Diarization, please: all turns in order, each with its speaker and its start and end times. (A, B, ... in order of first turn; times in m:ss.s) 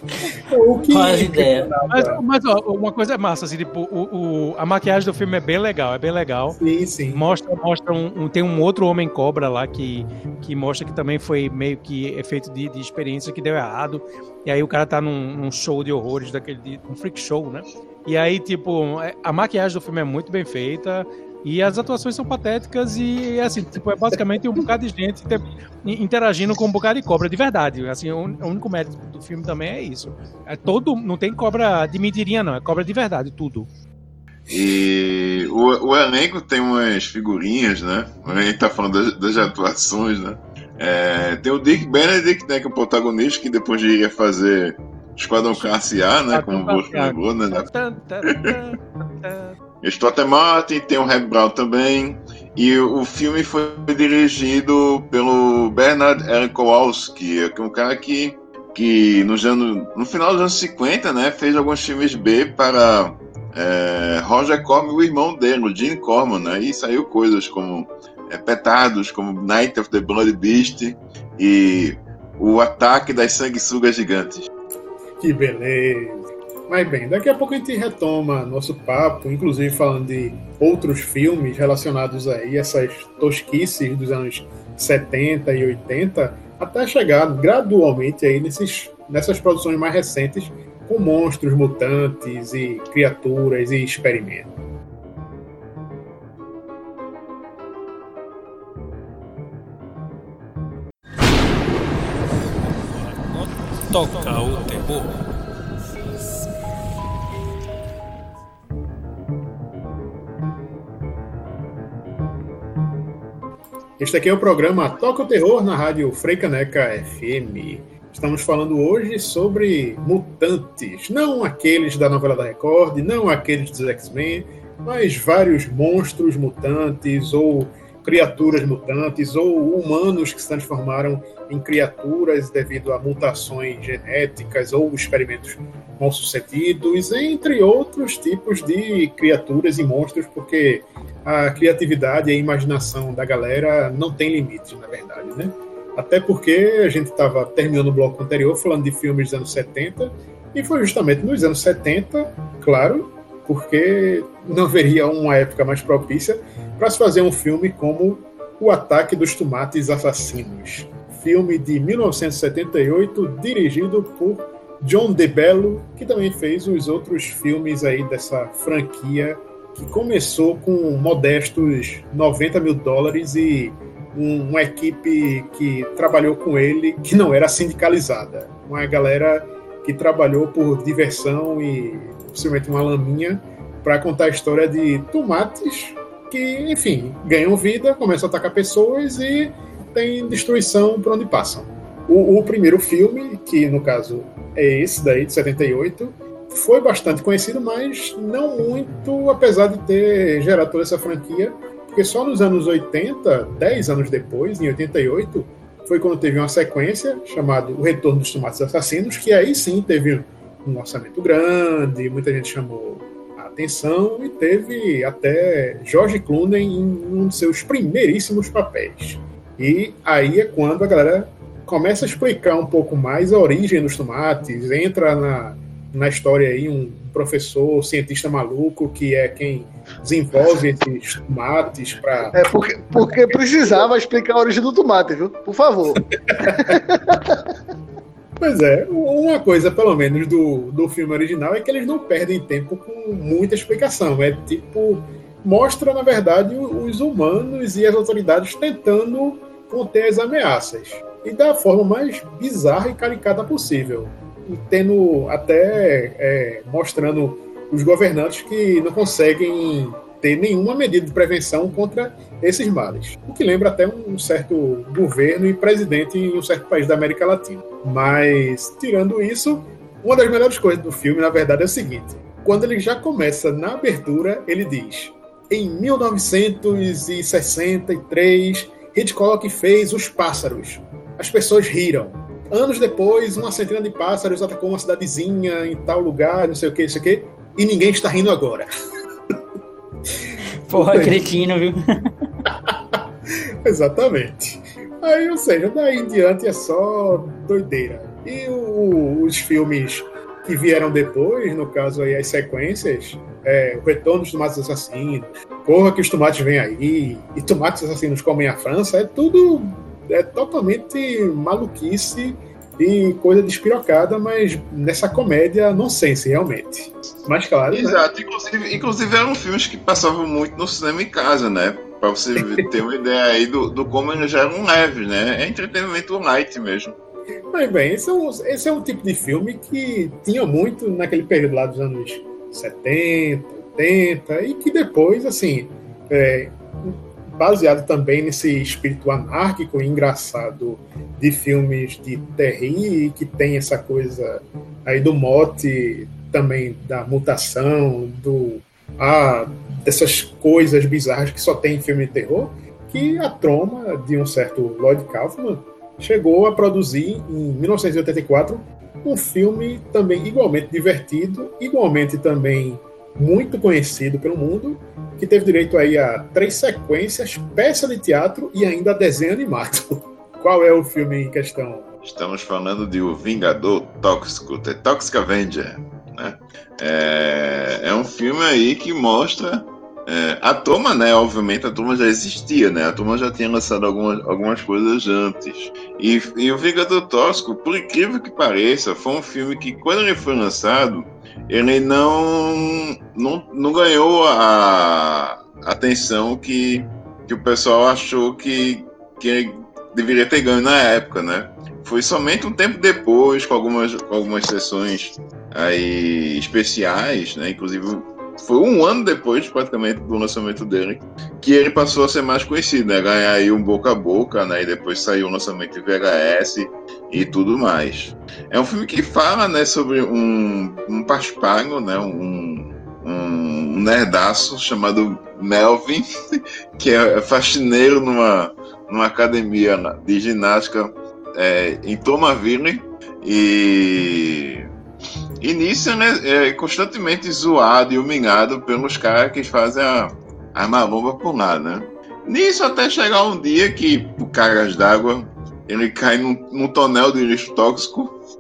0:00.4-0:02.2 A
0:00.9-0:01.7 B
0:01.9-0:06.6 C
0:06.6-0:07.3 A
0:07.1-0:33.7 C
0:34.5-0:47.7 D
0:46.3-0:49.6 C
0:49.8-1:14.5 D
1:15.2-1:34.5 A
1:54.0-3:52.4 A
3:52.3-3:57.5 E
3:52.9-3:53.8 A
3:56.3-3:56.8 A
3:58.4-4:48.7 A
4:50.7-4:51.8 B
4:50.7-4:51.2 A
4:52.5-5:18.0 A
5:17.7-5:27.0 D
5:27.5-6:11.9 A
6:12.0-7:06.1 D
7:06.8-7:14.7 D
7:15.4-7:28.2 D